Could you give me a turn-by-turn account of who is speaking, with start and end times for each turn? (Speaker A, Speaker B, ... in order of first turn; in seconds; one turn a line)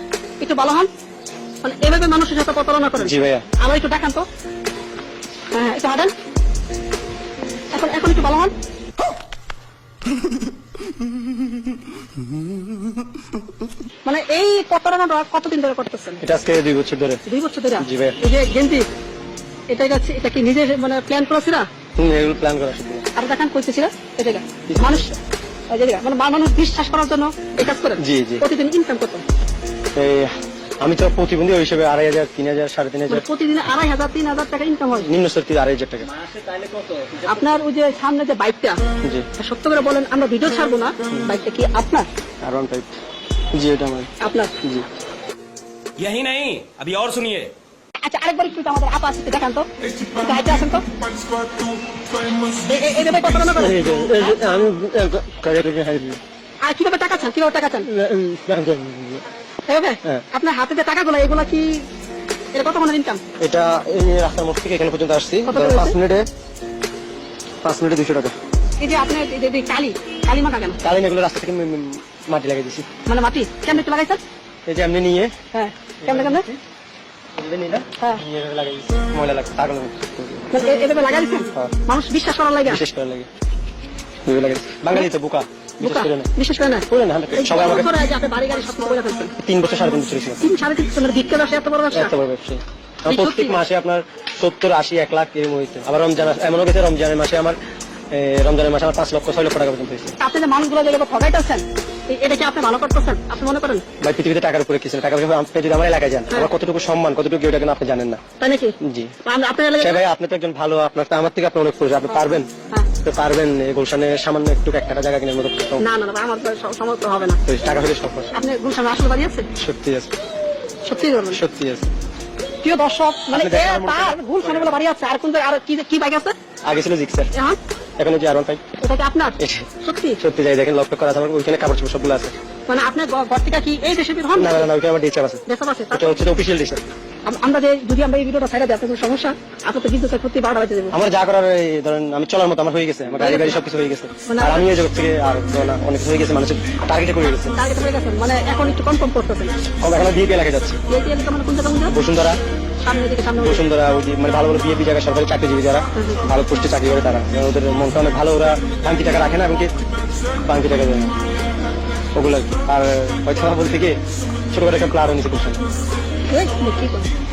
Speaker A: 0.4-0.9
Speaker A: 1.6-4.3
Speaker B: 3.0-3.5
Speaker A: 5.5-6.1
Speaker A: 7.7-8.5
Speaker A: 14.0-16.2
Speaker B: 16.2-17.2
Speaker A: 17.3-18.9
Speaker B: 17.8-18.2
Speaker A: 19.7-21.7
Speaker B: 22.0-23.1
Speaker A: 23.1-29.2
Speaker B: 24.7-25.1
Speaker B: 27.6-28.4
Speaker B: 29.9-33.2
Speaker A: 33.1-35.1
Speaker B: 35.0-36.1
Speaker C: 36.1-37.5
Speaker A: 37.3-38.8
Speaker B: 39.0-39.3
Speaker A: 39.4-42.1
Speaker B: 42.4-42.9
Speaker B: 43.5-44.1
Speaker A: 44.2-44.5
Speaker B: 44.6-44.9
Speaker C: 46.0-47.5
Speaker A: 48.0-50.9
Speaker A: 52.5-54.3
Speaker B: 53.5-56.2
Speaker A: 56.6-57.9
Speaker B: 57.9-59.2
Speaker A: 59.7-61.8
Speaker A: 62.5-63.2
Speaker B: 63.4-66.3
Speaker A: 65.5-66.0
Speaker B: 67.6-68.3
Speaker A: 68.8-70.8
Speaker B: 70.8-72.9
Speaker A: 73.1-74.2
Speaker B: 74.7-75.3
Speaker A: 75.5-76.5
Speaker B: 76.0-76.6
Speaker B: 77.4-80.5
Speaker A: 78.0-78.2
Speaker A: 80.5-82.8
Speaker B: 82.7-83.3
Speaker B: 84.2-86.3
Speaker A: 85.8-89.3
Speaker B: 86.9-87.9
Speaker B: 89.4-90.4
Speaker A: 90.4-92.1
Speaker B: 91.9-97.6
Speaker A: 93.1-93.6
Speaker B: 98.1-100.1
Speaker A: 100.2-103.8
Speaker B: 104.0-108.2
Speaker A: 108.4-110.0
Speaker B: 108.8-109.1
Speaker B: 109.8-112.5
Speaker A: 112.1-112.9
Speaker B: 113.0-115.8
Speaker A: 115.8-117.4
Speaker B: 117.5-118.3
Speaker A: 118.3-119.5
Speaker B: 119.5-120.1
Speaker A: 120.8-121.4
Speaker B: 121.3-121.9
Speaker A: 122.6-126.3
Speaker B: 123.3-124.8
Speaker B: 126.6-127.3
Speaker A: 127.3-127.6
Speaker B: 128.0-128.6
Speaker A: 128.8-130.2
Speaker B: 129.4-129.7
Speaker B: 130.2-132.3
Speaker A: 132.7-134.7
Speaker B: 134.4-136.8
Speaker A: 135.5-136.2
Speaker A: 137.2-140.9
Speaker B: 140.9-147.5
Speaker A: 143.2-143.6
Speaker A: 144.2-144.7
Speaker A: 147.5-149.6
Speaker B: 149.8-150.8
Speaker A: 150.9-151.9
Speaker B: 151.9-152.4
Speaker A: 152.8-153.7
Speaker B: 153.4-159.7
Speaker A: 155.9-156.2
Speaker B: 160.5-161.1
Speaker B: 162.2-164.0
Speaker B: 164.5-165.6
Speaker A: 166.3-167.1